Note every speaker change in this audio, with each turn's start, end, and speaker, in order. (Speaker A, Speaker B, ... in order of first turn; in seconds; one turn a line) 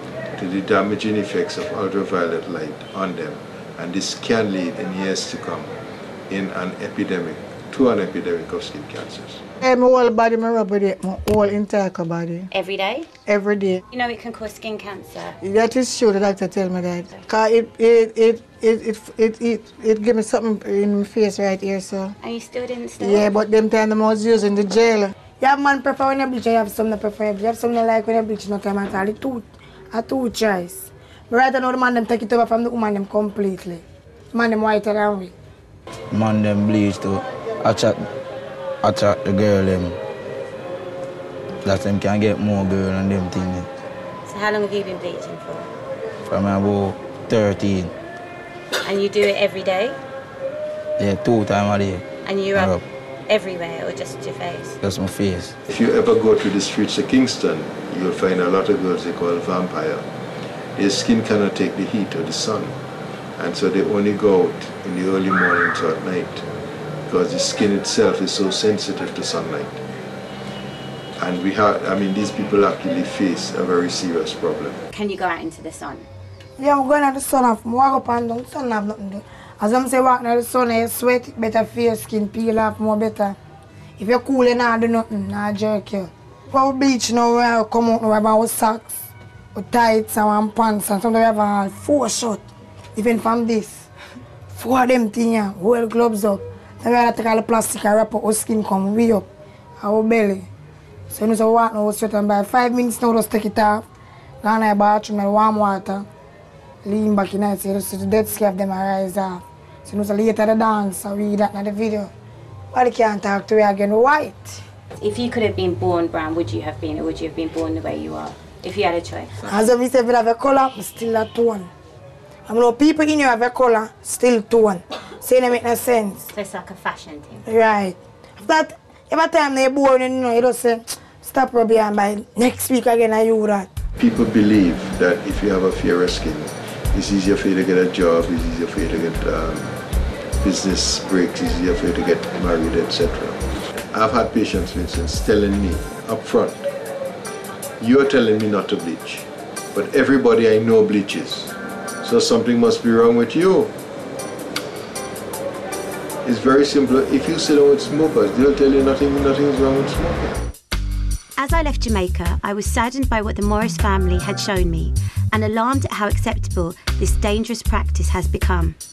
Speaker A: 0.3-5.7
Speaker A: 6.3-9.4
Speaker B: 9.6-12.5
Speaker C: 12.5-13.1
Speaker B: 13.2-13.8
Speaker C: 13.9-15.4
Speaker B: 15.4-22.1
Speaker C: 22.2-23.3
Speaker B: 23.0-25.1
Speaker D: 25.4-35.3
Speaker E: 36.1-38.0
Speaker E: 38.8-40.0
Speaker E: 41.6-43.7
Speaker C: 44.2-45.7
Speaker E: 46.3-47.9
Speaker C: 48.8-50.0
Speaker E: 51.0-52.8
Speaker C: 52.2-54.8
Speaker E: 54.8-55.5
Speaker A: 55.7-60.0
Speaker A: 60.8-62.8
Speaker A: 63.4-66.4
Speaker A: 67.1-69.8
Speaker A: 71.2-74.8
Speaker C: 74.9-76.1
Speaker D: 76.6-83.3
Speaker D: 84.0-89.0
Speaker D: 89.5-92.4
Speaker D: 93.0-93.9
Speaker D: 94.5-99.2
Speaker D: 99.8-100.5
Speaker D: 101.1-103.8
Speaker D: 104.4-106.0
Speaker D: 106.8-112.1
Speaker D: 112.7-114.6
Speaker C: 115.0-119.5
Speaker D: 119.4-121.7
Speaker D: 122.5-126.3
Speaker C: 126.3-127.4
Speaker D: 127.5-133.7
Speaker A: 134.0-139.8
Speaker A: 140.4-143.4
Speaker A: 143.9-146.7
Speaker A: 147.8-153.7
Speaker A: 156.2-160.4
Speaker C: 161.3-168.8